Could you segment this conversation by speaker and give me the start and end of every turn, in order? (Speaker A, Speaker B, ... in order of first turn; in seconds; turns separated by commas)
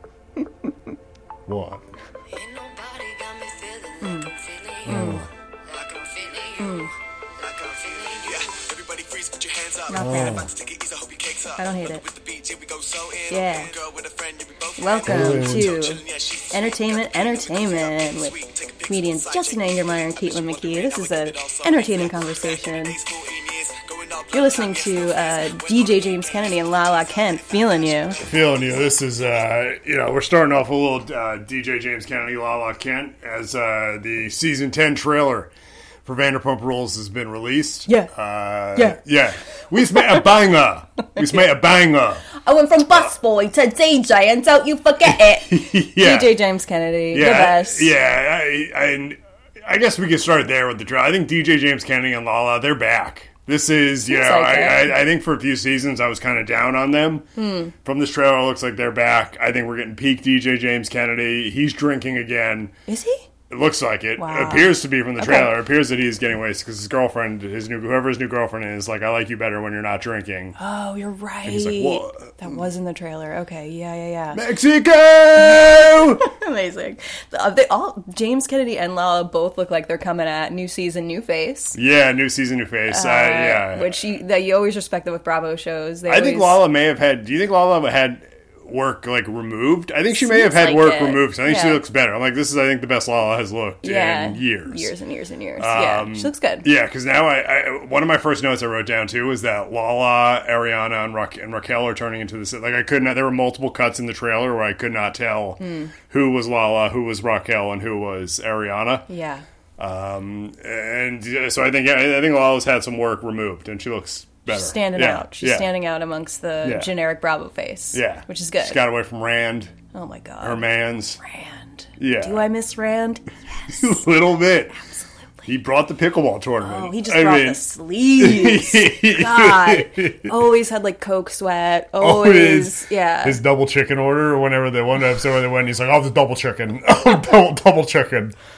Speaker A: 1.5-1.8, Speaker B: 2.3-4.9, Speaker C: 4.0-4.3, Speaker C: 4.8-5.2, Speaker A: 4.8-5.3, Speaker D: 5.7-6.8, Speaker C: 6.6-6.9, Speaker D: 7.4-28.9, Speaker C: 9.9-10.5, Speaker A: 9.9-10.5, Speaker C: 11.6-12.0, Speaker C: 13.3-13.7, Speaker C: 14.8-18.4, Speaker A: 15.1-15.8, Speaker C: 18.9-23.0, Speaker C: 24.3-28.2, Speaker A: 28.2-35.5, Speaker A: 36.0-42.3, Speaker C: 41.2-41.5, Speaker C: 42.3-47.9, Speaker A: 45.1-46.4, Speaker A: 47.1-57.3, Speaker C: 54.1-55.0, Speaker C: 57.4-57.7, Speaker A: 57.8-62.7, Speaker C: 62.9-63.3, Speaker A: 63.5-70.5, Speaker C: 64.2-65.5, Speaker C: 70.6-74.4, Speaker A: 71.5-72.3, Speaker A: 74.3-76.2, Speaker C: 75.8-81.8, Speaker A: 81.8-84.0, Speaker C: 82.9-86.6, Speaker A: 86.1-94.9, Speaker C: 90.1-91.8, Speaker C: 93.8-96.7, Speaker A: 95.6-109.1, Speaker C: 105.6-105.9, Speaker C: 109.1-109.4, Speaker A: 109.8-115.7, Speaker C: 114.5-118.8, Speaker A: 116.6-116.9, Speaker A: 117.9-119.7, Speaker C: 119.9-120.6, Speaker A: 120.4-121.2, Speaker C: 121.2-123.9, Speaker A: 122.0-122.5, Speaker A: 123.7-124.8, Speaker A: 125.5-127.6, Speaker C: 126.6-133.4, Speaker A: 128.2-130.3, Speaker A: 132.0-138.3